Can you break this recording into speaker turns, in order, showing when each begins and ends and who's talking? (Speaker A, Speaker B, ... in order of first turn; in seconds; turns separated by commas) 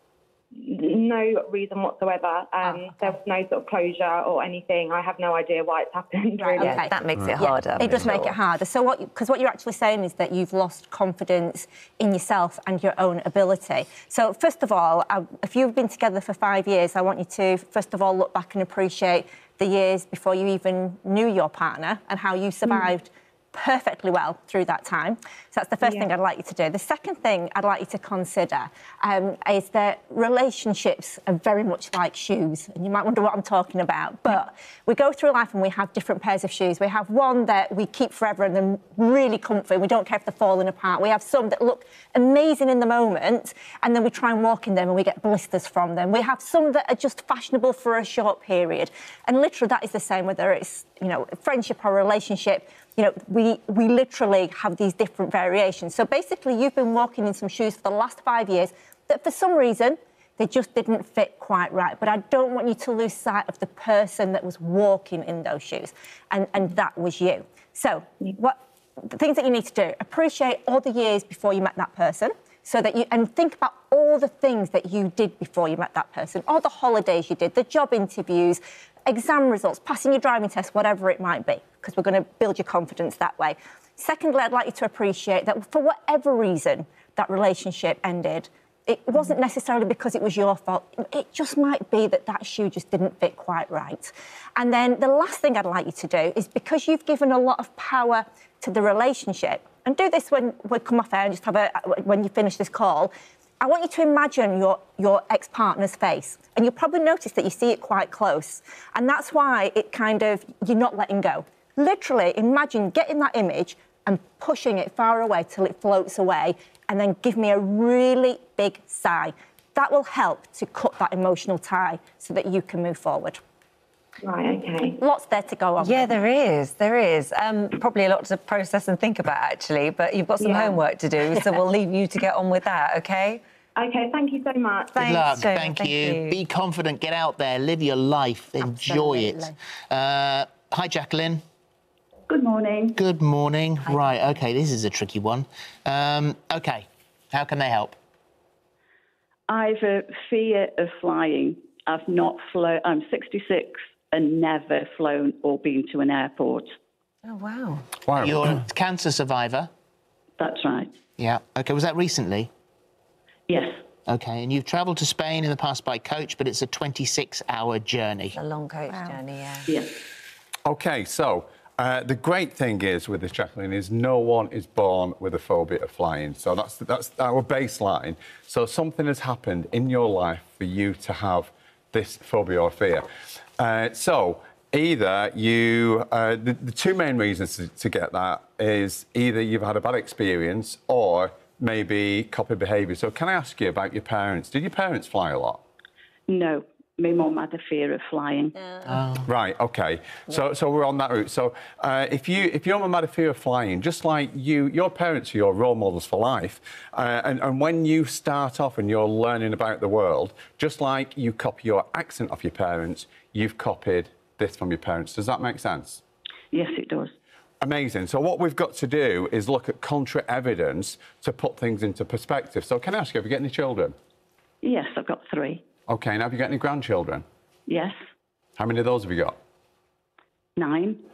Speaker A: 0.5-6.8, Speaker B: 6.4-123.4, Speaker C: 6.6-8.3, Speaker A: 25.8-26.1, Speaker A: 124.2-125.0, Speaker B: 125.0-126.1, Speaker C: 125.8-133.4, Speaker A: 130.4-130.8, Speaker A: 133.8-135.1, Speaker C: 134.9-136.4, Speaker D: 135.0-141.4, Speaker B: 138.8-139.5, Speaker E: 142.3-143.0, Speaker D: 143.0-148.0, Speaker E: 149.5-156.7, Speaker C: 157.2-157.9, Speaker F: 158.1-158.6, Speaker D: 158.2-159.7, Speaker E: 160.4-160.9, Speaker D: 161.2-162.5, Speaker E: 163.5-163.8, Speaker D: 164.1-168.4, Speaker C: 168.3-169.7, Speaker B: 168.9-169.2, Speaker E: 169.7-169.9, Speaker F: 170.7-183.1, Speaker F: 183.6-195.6, Speaker E: 196.3-198.5, Speaker D: 198.8-199.3, Speaker F: 199.3-216.0, Speaker E: 216.5-217.1, Speaker F: 217.6-223.9, Speaker E: 224.6-225.6, Speaker F: 225.9-227.2, Speaker E: 227.7-227.9, Speaker F: 228.6-229.3, Speaker E: 230.6-231.0